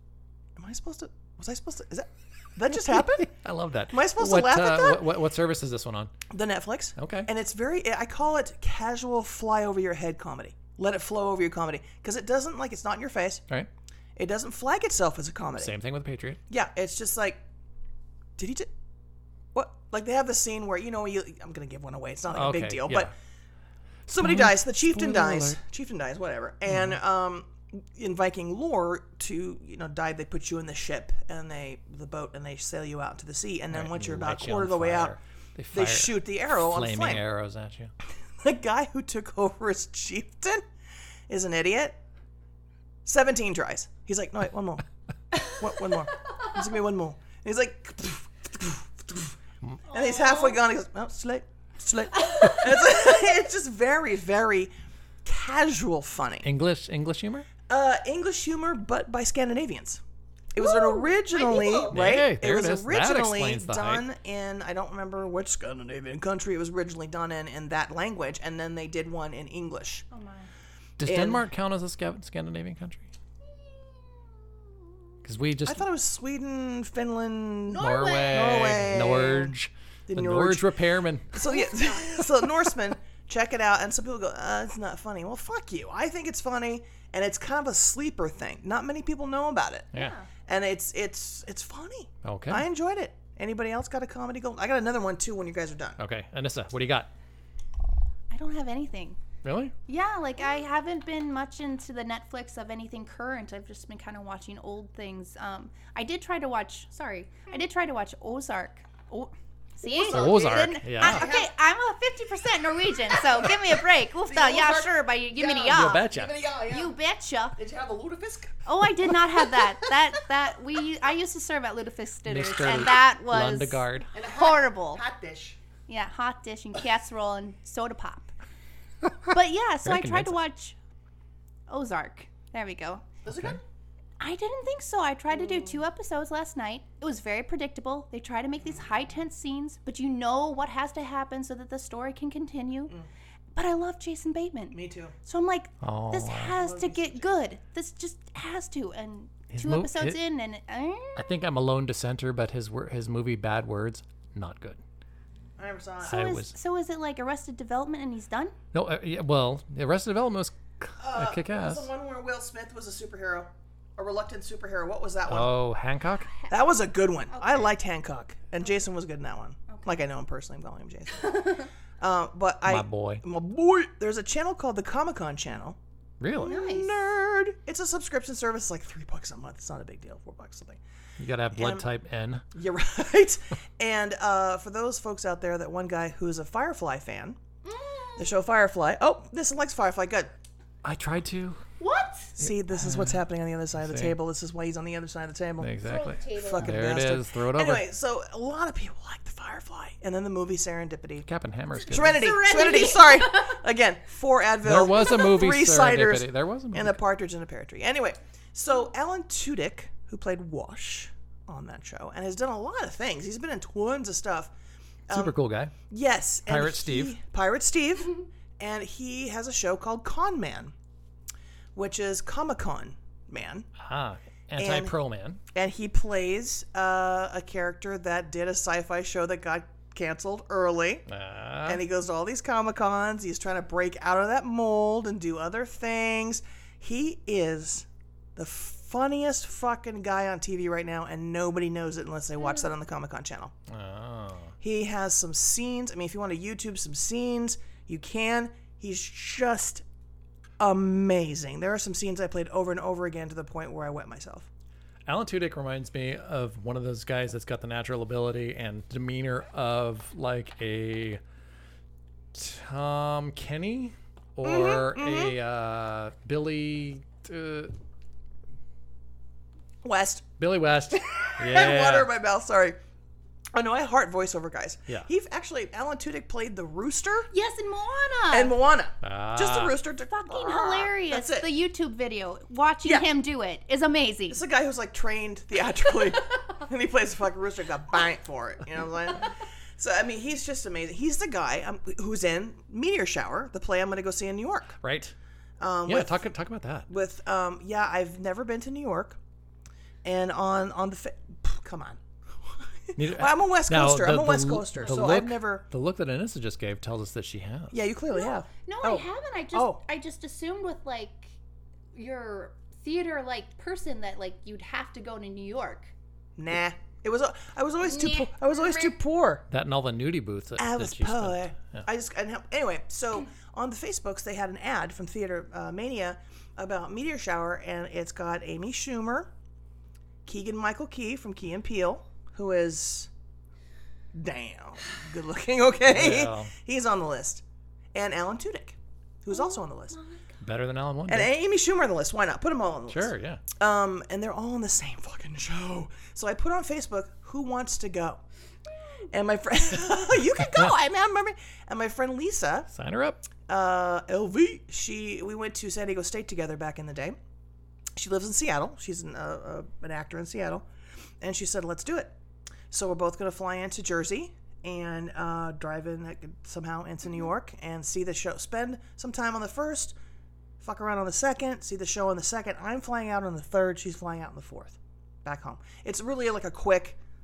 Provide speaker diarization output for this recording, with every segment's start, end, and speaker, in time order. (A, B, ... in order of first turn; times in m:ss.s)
0:00.6-0:03.3 A
0:02.9-0:06.1 B
0:03.9-0:05.1 A
0:06.3-0:13.4 A
0:07.0-0:07.3 B
0:14.2-0:15.7 A
0:15.6-0:16.4 B
0:16.5-0:17.4 A
0:18.4-0:18.7 A
0:19.5-0:23.1 A
0:22.3-0:23.1 B
0:24.1-0:35.2 A
0:24.2-0:25.6 B
0:26.7-0:27.0 B
0:33.7-0:37.9 B
0:35.7-0:37.2 A
0:38.4-0:40.6 A
0:41.3-0:42.0 A
0:43.0-0:44.8 A
0:45.4-0:49.4 A
0:49.9-0:54.7 A
0:49.9-0:50.6 C
0:55.2-0:56.5 A
0:56.4-0:57.5 B
0:57.7-1:00.0 A
1:00.5-1:10.0 A
1:00.6-1:02.0 C
1:01.7-1:04.0 B
1:10.1-1:10.5 C
1:11.0-1:13.1 B
1:11.0-1:11.4 A
1:15.2-1:15.8 B
1:15.6-1:19.5 A
1:17.7-1:18.7 C
1:17.7-1:21.4 B
1:20.1-1:20.8 A
1:21.3-1:29.9 A
1:21.6-1:21.9 C
1:29.9-1:30.3 C
1:30.5-1:36.0 A
1:32.2-1:32.6 B
1:36.0-1:37.1 B
1:38.3-1:39.2 C
1:39.4-1:39.7 B
1:39.9-1:56.1 C
1:49.9-1:51.5 A
1:50.0-1:51.3 B
1:53.1-1:53.7 A
1:54.2-1:56.9 A
1:55.6-1:56.3 B
1:56.6-1:57.6 C
1:57.6-2:00.2 A
1:58.6-2:05.0 C
2:02.2-2:04.1 B
2:04.1-2:05.6 A
2:05.9-2:08.3 C
2:09.2-2:10.8 C
2:09.8-2:10.4 B
2:11.7-2:13.0 C
2:13.2-2:13.6 A
2:14.2-2:22.9 C
2:15.3-2:15.7 A
2:23.5-2:31.2 C
2:24.7-2:25.1 A
2:25.8-2:26.5 B
2:26.5-2:27.3 A
2:29.5-2:30.2 B
2:31.2-2:34.8 B
2:35.6-2:36.2 A
2:36.0-2:38.5 C
2:36.0-2:36.5 B
2:38.7-2:41.9 B
2:41.0-2:45.6 A
2:45.3-2:46.3 B
2:46.5-2:55.8 A
2:47.3-2:47.7 C
2:49.7-2:50.0 C
2:51.2-2:51.6 C
2:52.6-2:53.2 B
2:56.2-2:56.5 B
2:56.3-3:00.8 A
2:56.4-2:57.0 C
3:01.2-3:02.4 B
3:01.5-3:01.8 A
3:02.5-3:07.4 A
3:07.6-3:08.3 C
3:08.2-3:10.3 A
3:10.8-3:11.6 B
3:11.8-3:12.3 C
3:12.4-3:15.7 A
3:12.4-3:13.2 B
3:13.8-3:14.2 B
3:15.6-3:17.8 B
3:15.8-3:16.7 C
3:16.3-3:21.3 A
3:21.2-3:22.4 B
3:21.9-3:34.5 A
3:21.9-3:23.6 C
3:24.6-3:27.0 B
3:35.1-3:35.3 A
3:35.1-3:35.7 B
3:35.9-3:40.7 A
3:36.5-3:37.1 B
3:41.7-3:43.7 A
3:43.8-3:45.4 B
3:44.6-3:44.9 A
3:45.5-3:51.0 A
3:51.1-3:51.8 B
3:51.6-4:03.5 A
4:03.7-4:04.5 B
4:04.6-4:09.8 A
4:10.6-4:14.5 A
4:15.0-4:21.2 B
4:22.3-4:27.7 B
4:24.4-4:25.3 A
4:29.8-4:30.2 A
4:30.4-4:32.1 B
4:31.1-4:32.8 A
4:33.5-4:37.3 A
4:37.3-4:38.5 C
4:38.3-4:41.5 A
4:39.0-4:39.7 B
4:40.1-4:44.4 C
4:44.3-4:54.8 A
4:54.8-4:55.1 B
4:55.6-4:56.2 A
4:55.9-4:56.9 B
4:56.9-4:59.2 A
5:00.0-5:02.0 A
5:02.9-5:05.6 A
5:03.0-5:07.7 B
5:07.7-5:09.8 A
5:08.1-5:11.3 C
5:11.9-5:15.9 C
5:16.4-5:19.4 A
5:17.8-5:18.9 C
5:19.5-5:21.8 B
5:20.6-5:29.3 A
5:30.2-5:33.1 A
5:34.1-5:37.4 A
5:35.9-5:36.5 B
5:37.9-5:40.0 A
5:39.3-5:40.2 C
5:40.4-5:41.3 B
5:41.1-5:48.2 A
5:42.9-5:43.4 B
5:49.1-5:52.7 A
5:50.4-5:50.7 B
5:52.7-5:53.2 B
5:53.5-5:57.2 A
5:58.0-6:00.6 A
6:01.2-6:02.1 A
6:02.7-6:09.9 A
6:10.6-6:17.0 A